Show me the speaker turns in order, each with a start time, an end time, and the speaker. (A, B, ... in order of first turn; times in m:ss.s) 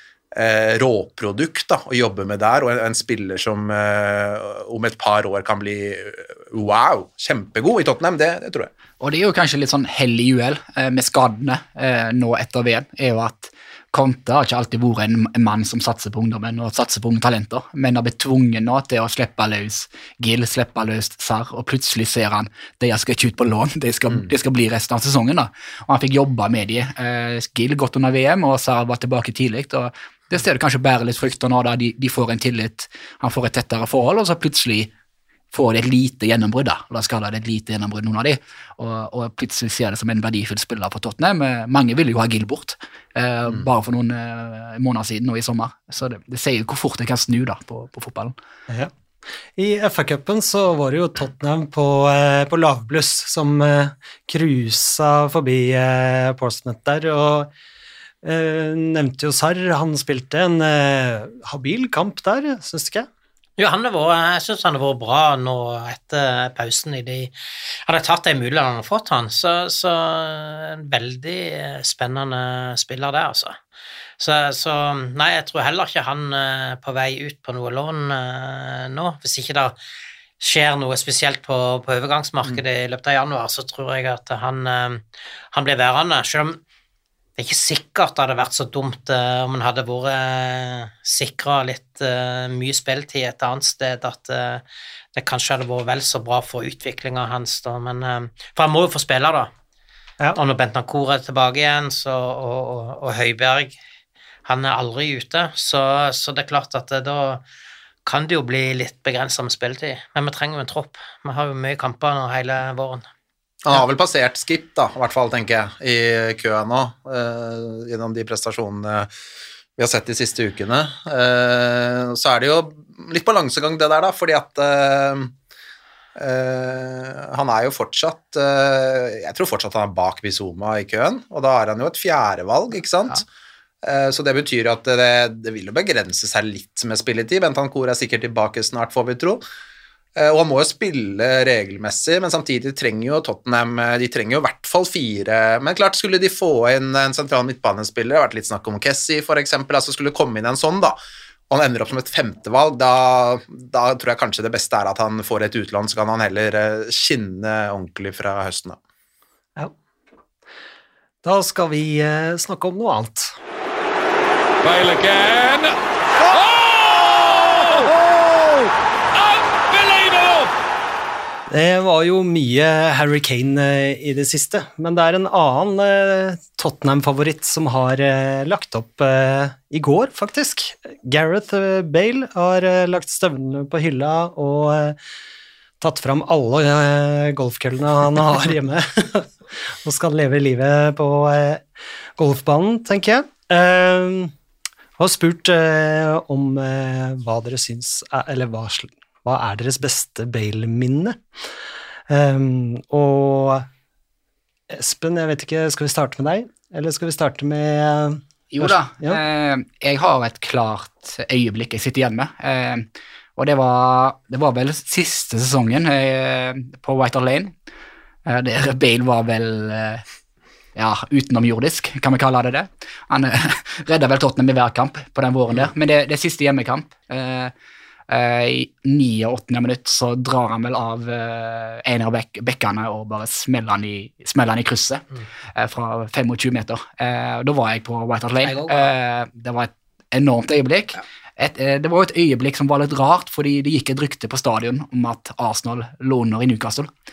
0:00.3-0:08.7 A
0:09.0-0:34.9 B
0:35.5-0:48.4 B
0:49.6-0:57.5 C
0:58.2-1:03.1 C
1:03.6-1:07.3 D
1:07.8-1:13.6 D
1:14.2-1:19.8 D
1:20.4-1:26.6 D
1:27.4-1:34.6 D
1:35.2-1:39.5 D
1:40.4-1:43.8 D
1:44.4-1:47.4 D
1:48.0-1:53.1 D
1:53.6-1:59.1 A
1:59.8-2:05.3 A
2:06.2-2:13.2 A
2:13.8-2:19.4 A
2:20.2-2:31.0 A
2:31.5-2:38.8 A
2:41.2-2:43.3 C
2:44.6-2:50.5 E
2:51.5-3:05.0 C
3:05.8-3:11.6 C
3:12.2-3:14.3 C
3:15.0-3:21.2 C
3:22.1-3:23.7 C
3:24.7-3:29.2 C
3:28.5-3:37.5 B
3:38.3-3:40.0 B
3:40.8-3:47.5 B
3:48.1-4:06.9 B
3:58.4-3:58.9 D